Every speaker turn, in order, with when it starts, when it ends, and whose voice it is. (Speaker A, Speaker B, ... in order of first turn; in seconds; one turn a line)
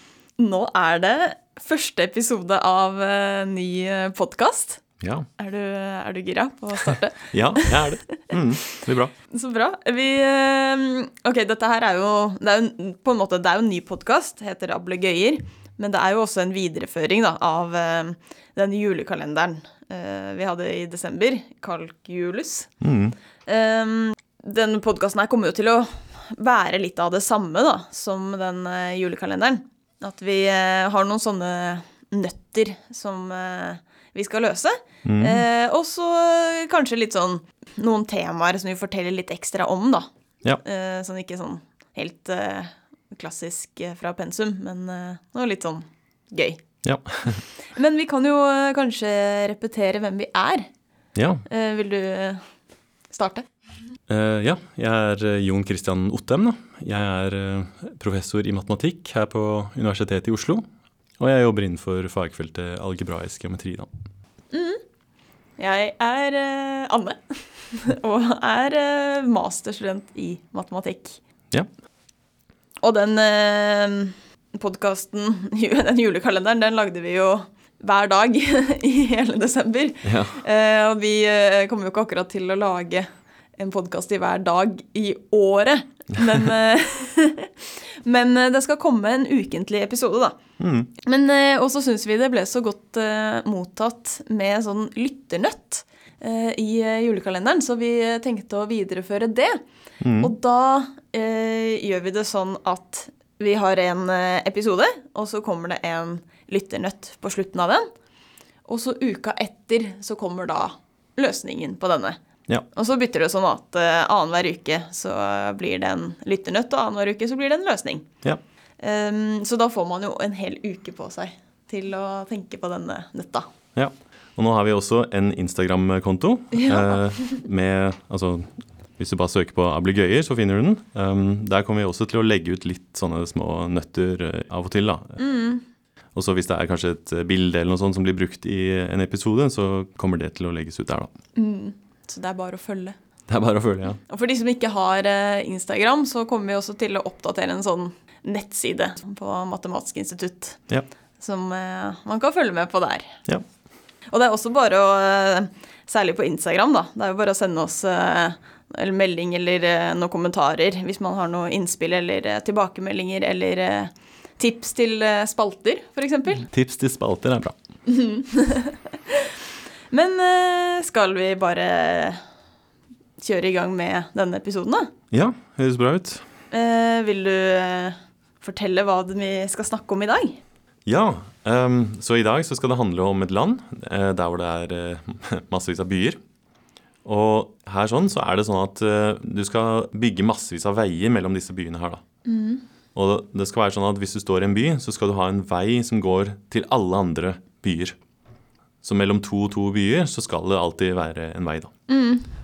Speaker A: 0.4-4.8
Speaker B: 5.0-5.3
Speaker A: 5.4-8.3
Speaker B: 7.3-9.1
Speaker A: 9.3-22.7
Speaker B: 22.8-23.1
Speaker A: 23.4-40.1
Speaker B: 35.0-35.4
Speaker A: 40.6-46.6
Speaker B: 46.8-47.4
Speaker A: 47.6-50.7
Speaker B: 51.1-51.4
Speaker A: 51.5-52.4
Speaker A: 53.1-53.5
Speaker B: 54.1-60.6
Speaker B: 61.2-63.9
Speaker A: 64.5-64.8
Speaker A: 65.6-67.2
Speaker A: 67.7-71.2
Speaker A: 72.8-90.4
Speaker B: 80.0-80.4
Speaker B: 90.6-90.9
Speaker A: 91.0-99.6
Speaker B: 100.0-100.3
Speaker A: 100.2-107.9
Speaker A: 108.7-112.2
Speaker A: 112.7-118.1
Speaker A: 118.8-123.5
Speaker B: 123.7-135.2
Speaker A: 126.5-127.4
Speaker A: 135.2-135.6
Speaker B: 136.1-141.1
Speaker A: 141.3-142.9
Speaker B: 143.3-144.0
Speaker A: 144.0-150.6
Speaker A: 151.2-153.2
Speaker A: 154.1-166.5
Speaker B: 166.5-167.5
Speaker A: 167.8-169.3
Speaker A: 169.9-172.2
Speaker A: 173.2-174.9
Speaker B: 175.1-176.2
Speaker A: 176.5-180.4
Speaker B: 180.8-186.2
Speaker B: 187.0-192.0
Speaker A: 192.2-192.6
Speaker B: 192.9-198.0
Speaker B: 198.8-201.7
Speaker A: 201.9-202.2